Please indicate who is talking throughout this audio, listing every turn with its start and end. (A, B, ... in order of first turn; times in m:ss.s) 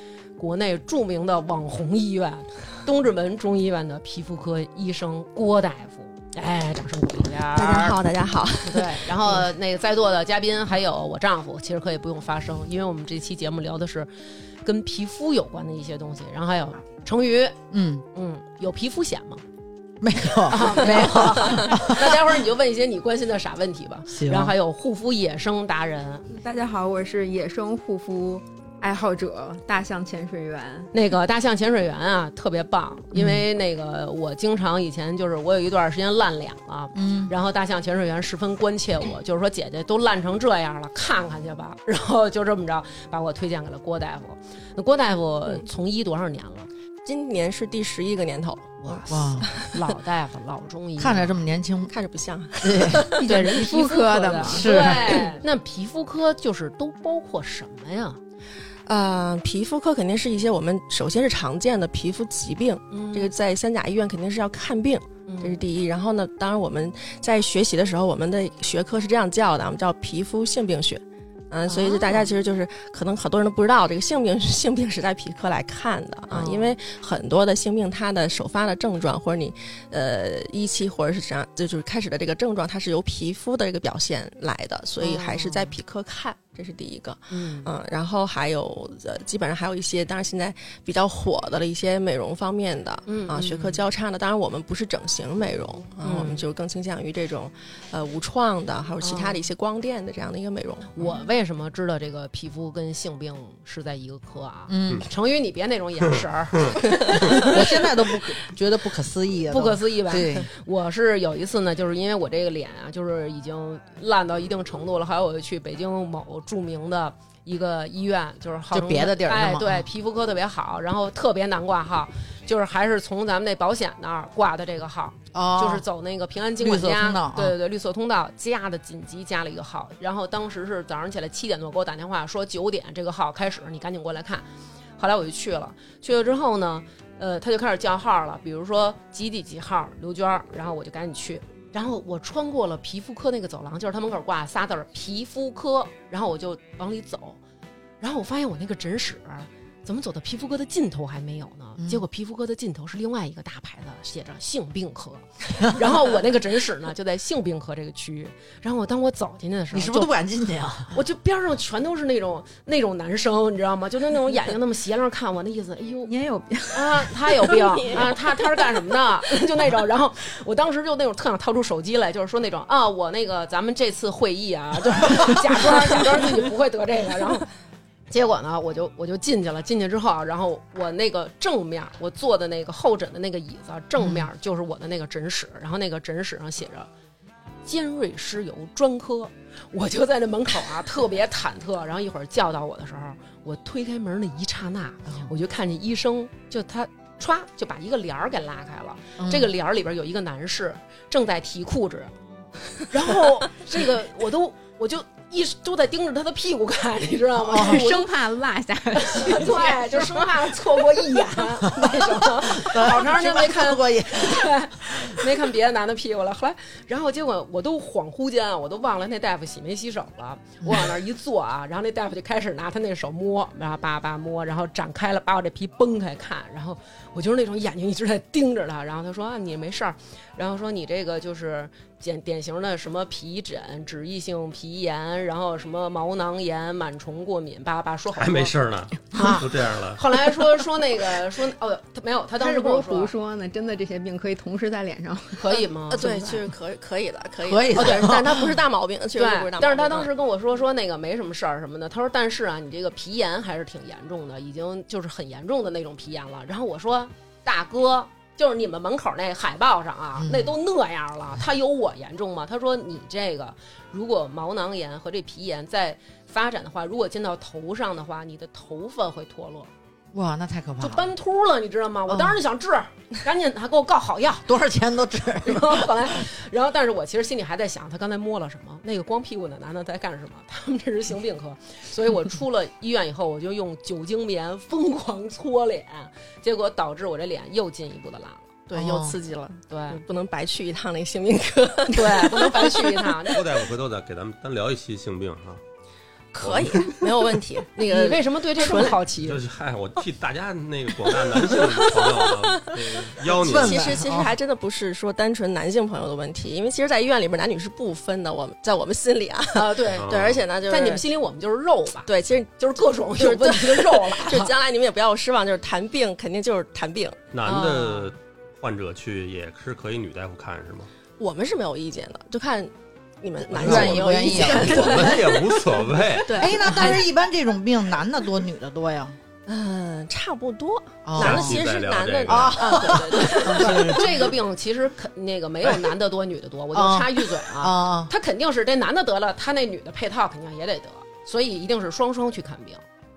0:00.4-0:08.0 A
0:07.5-0:09.5 B
0:08.6-0:14.1 A
0:14.6-0:17.6 A
0:17.7-0:18.0 C
0:18.1-0:19.4 A
0:20.0-0:22.1 C
0:20.5-0:26.2 A
0:24.1-0:24.6 C
0:26.3-0:30.9 D
0:30.9-0:46.7 A
0:33.1-0:33.4 C
0:36.9-0:37.3 C
0:47.0-0:49.8 B
0:48.8-0:51.3 A
0:49.1-0:49.5 C
0:51.0-0:51.9 C
0:51.9-0:53.2 B
0:52.6-0:53.2 C
0:53.1-0:55.3 D
0:53.2-0:58.2 A
0:54.4-0:55.2 C
0:58.8-1:41.1 B
1:02.9-1:03.3 A
1:05.2-1:05.6 A
1:11.7-1:12.3 A
1:16.3-1:16.8 A
1:25.0-1:25.7 A
1:27.3-1:27.7 A
1:33.1-1:33.8 A
1:36.0-1:36.4 A
1:39.0-1:39.5 A
1:40.9-1:47.6 A
1:44.7-1:45.0 C
1:47.3-1:50.5 C
1:49.5-2:14.5 A
1:58.7-1:59.9 C
2:05.3-2:05.8 C
2:06.6-2:07.6 C
2:15.0-2:27.4 A
2:28.0-2:40.1 A
2:31.8-2:32.0 C
2:39.7-2:40.9 C
2:40.9-2:46.1 A
2:46.0-2:48.1 D
2:46.7-2:57.5 A
2:47.6-2:48.2 B
2:58.1-3:06.9 A
3:04.0-3:04.3 C
3:07.6-3:22.1 A
3:15.1-3:15.3 C
3:19.2-3:19.5 C
3:22.9-3:28.1 A
3:27.4-3:28.0 C
3:27.5-3:30.3 D
3:29.0-3:58.5 A
3:31.7-3:35.2 C
3:40.6-3:40.9 C
3:58.1-4:00.0 E
3:59.1-4:03.2 A
4:02.4-4:05.6 D
4:05.4-4:06.5 A
4:05.9-4:10.1 B
4:07.4-4:08.6 C
4:07.7-4:08.1 A
4:09.2-4:29.7 A
4:20.2-4:20.5 C
4:30.1-4:31.1 C
4:30.8-4:34.5 A
4:32.1-4:32.4 C
4:34.4-4:36.1 C
4:35.4-4:48.5 A
4:48.7-4:53.4 B
4:48.7-4:49.2 C
4:49.7-4:50.0 A
4:51.9-4:53.4 A
4:53.3-4:55.6 E
4:56.3-4:59.0 B
4:56.4-4:56.9 E
4:57.8-4:59.4 A
4:59.2-5:04.0 E
5:01.0-5:11.0 B
5:03.4-5:04.3 C
5:09.5-5:10.1 A
5:10.0-5:10.5 E
5:10.6-5:14.5 A
5:12.1-5:12.5 B
5:13.1-5:17.2 B
5:17.3-5:20.9 E
5:17.4-5:18.1 A
5:21.2-5:27.0 B
5:23.4-5:25.2 C
5:23.6-5:26.8 E
5:26.4-5:29.2 C
5:29.5-5:34.1 B
5:31.0-5:31.6 C
5:31.2-5:33.0 E
5:32.3-5:34.3 C
5:33.5-5:42.8 A
5:36.7-5:38.1 C